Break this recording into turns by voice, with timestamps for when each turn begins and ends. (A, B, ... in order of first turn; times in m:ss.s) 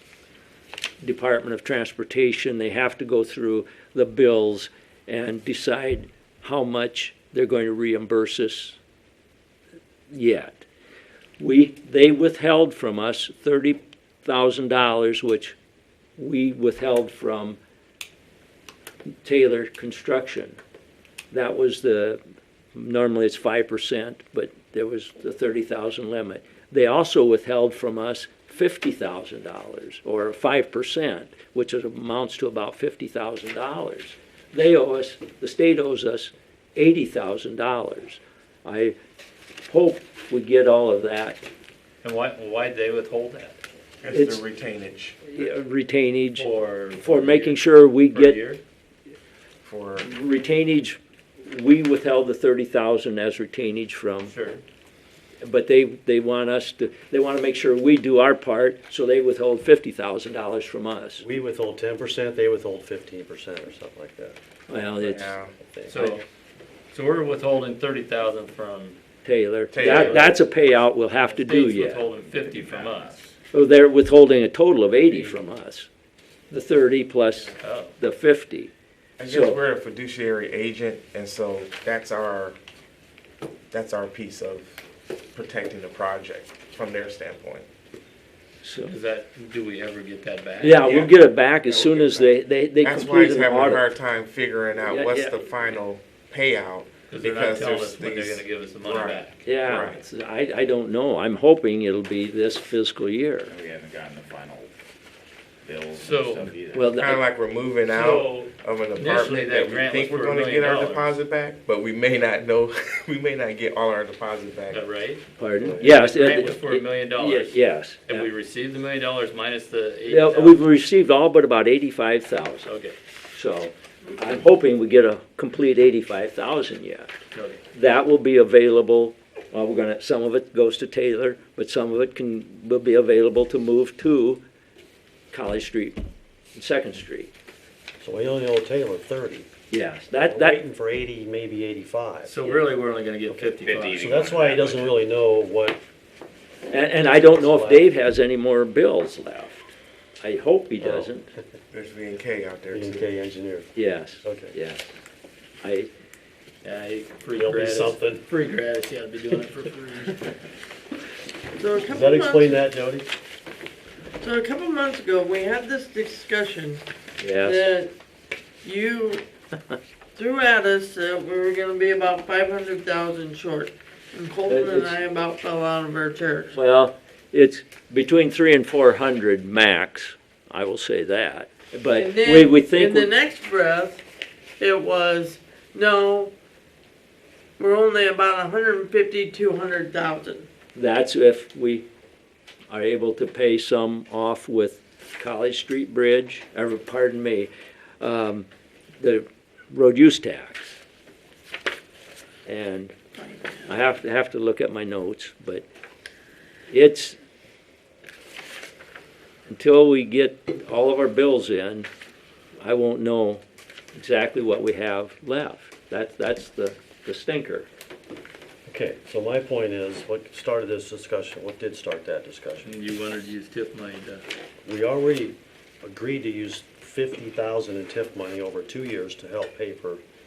0:01.0-0:08.8 A
0:10.1-0:10.7 A
0:11.4-0:15.6 A
0:16.2-0:17.6 A
0:19.2-0:20.6 A
0:21.3-0:22.2 A
0:22.7-0:39.0 A
0:39.7-0:41.4 A
0:42.0-0:43.6 B
0:44.0-0:45.2 C
0:44.1-0:44.4 A
0:45.2-0:46.5 A
0:46.4-0:48.6 B
0:47.0-0:48.4 A
0:49.6-0:50.1 C
0:50.0-0:54.3 A
0:54.3-0:54.6 B
0:55.4-1:01.2 A
1:01.2-1:04.4 D
1:04.7-1:05.4 A
1:04.8-1:05.6 C
1:05.6-1:06.2 D
1:05.9-1:06.2 B
1:06.9-1:09.0 B
1:09.2-1:12.0 A
1:09.7-1:10.3 C
1:09.8-1:10.3 B
1:11.2-1:13.2 B
1:12.3-1:13.2 E
1:13.5-1:15.9 A
1:16.5-1:18.7 A
1:17.6-1:17.9 B
1:19.2-1:22.6 C
1:19.3-1:19.6 A
1:23.7-1:24.8 C
1:25.3-1:27.7 C
1:28.6-1:28.9 A
1:28.9-1:31.1 B
1:30.6-1:33.9 A
1:30.8-1:40.0 C
1:34.8-1:35.5 A
1:37.1-1:39.4 B
1:39.4-1:43.5 A
1:43.5-1:44.7 E
1:45.6-1:46.9 E
1:46.0-1:46.5 B
1:46.7-1:47.2 A
1:46.9-1:54.8 C
1:47.9-1:51.1 B
1:54.7-1:55.2 B
1:55.4-1:58.3 A
1:55.6-1:56.0 D
1:55.7-2:00.6 B
2:00.1-2:02.7 A
2:02.6-2:03.0 B
2:03.3-2:07.1 A
2:07.3-2:07.6 B
2:07.7-2:14.4 A
2:15.3-2:16.0 A
2:16.6-2:17.3 A
2:18.0-2:19.5 D
2:19.7-2:20.6 A
2:20.2-2:22.4 D
2:22.2-2:24.1 B
2:23.3-2:25.8 D
2:23.6-2:24.9 E
2:26.7-2:29.7 A
2:27.2-2:27.9 D
2:30.2-2:31.3 A
2:30.8-2:31.1 D
2:31.7-2:33.1 C
2:32.7-2:33.7 D
2:33.8-2:34.9 A
2:34.2-2:34.5 D
2:35.6-2:35.9 A
2:36.6-2:40.2 B
2:37.4-2:38.2 D
2:41.6-2:42.6 F
2:41.9-2:43.1 D
2:44.2-2:46.8 F
2:47.2-2:47.6 A
2:47.4-2:47.9 F
2:48.6-2:49.2 F
2:50.2-2:56.6 F
2:54.5-2:55.0 A
2:56.5-3:03.1 A
3:01.9-3:04.0 F
3:04.6-3:06.3 F
3:07.6-3:10.5 F
3:10.8-3:11.9 A
3:12.7-3:18.5 A
3:19.0-3:20.8 A
3:22.5-3:22.9 A
3:23.2-3:23.7 F
3:23.7-3:25.6 A
3:26.7-3:27.2 A
3:29.5-3:31.9 A
3:32.6-3:33.4 A
3:33.9-3:37.7 A
3:38.7-3:42.7 D
3:42.6-3:44.2 B
3:44.6-3:50.0 D